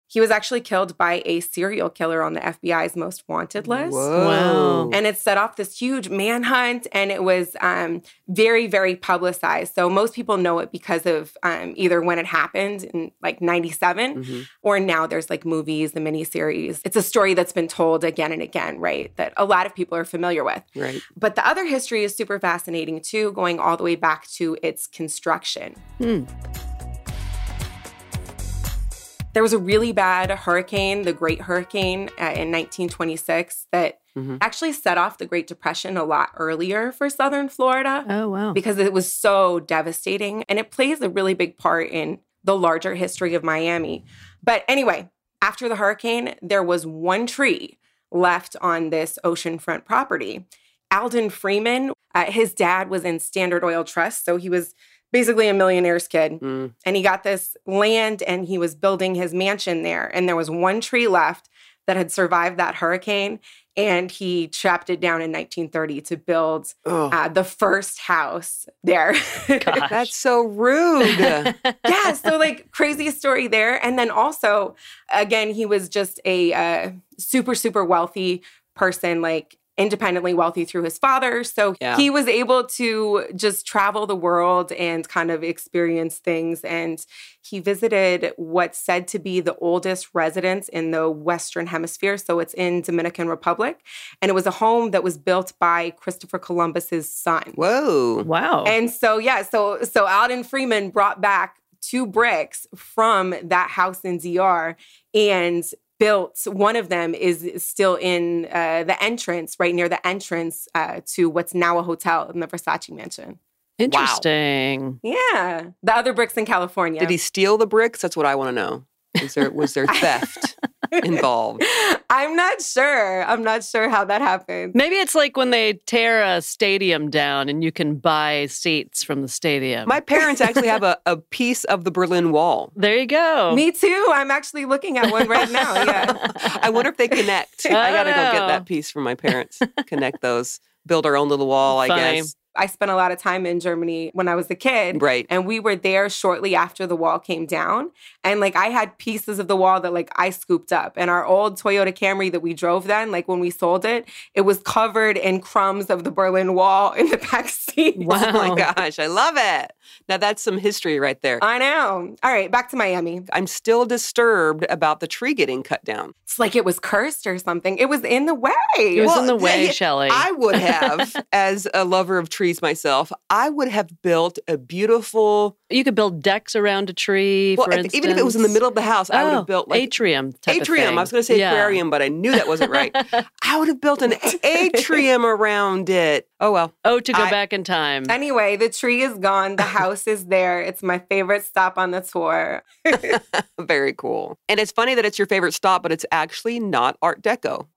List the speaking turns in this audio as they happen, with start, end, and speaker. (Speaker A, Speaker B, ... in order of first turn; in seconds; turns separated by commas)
Speaker A: 0.1-4.1, Speaker B: 3.6-5.0, Speaker C: 4.2-4.9, Speaker A: 4.9-25.8, Speaker B: 14.2-14.5, Speaker B: 20.8-21.0, Speaker C: 26.0-26.3, Speaker A: 29.4-69.9, Speaker B: 34.2-34.4, Speaker C: 38.1-38.6, Speaker B: 56.4-56.7, Speaker B: 66.9-67.2, Speaker C: 69.6-70.1, Speaker B: 69.9-71.5, Speaker C: 71.0-72.3, Speaker A: 71.8-97.6, Speaker B: 81.8-82.1, Speaker B: 97.6-98.3, Speaker C: 98.2-98.8, Speaker A: 98.7-113.4, Speaker C: 113.8-115.0, Speaker B: 113.9-114.2, Speaker A: 115.0-117.2, Speaker B: 117.0-121.6, Speaker A: 121.6-124.8, Speaker C: 124.7-130.0, Speaker B: 129.9-132.7, Speaker C: 132.8-133.6, Speaker A: 133.5-136.2, Speaker C: 136.1-136.6, Speaker B: 136.2-142.3, Speaker C: 137.7-138.7, Speaker C: 139.3-139.8, Speaker C: 141.7-142.3, Speaker A: 142.5-158.3, Speaker B: 144.9-145.3, Speaker C: 158.0-158.7, Speaker B: 158.1-161.4, Speaker A: 161.4-163.3, Speaker B: 163.3-166.1, Speaker A: 166.3-169.1, Speaker C: 168.9-171.1, Speaker B: 169.0-175.6, Speaker C: 175.7-181.8, Speaker B: 177.6-179.9, Speaker B: 180.5-187.4, Speaker C: 182.3-183.2, Speaker A: 184.1-184.4, Speaker C: 186.8-188.2, Speaker A: 188.1-193.2, Speaker B: 193.1-197.7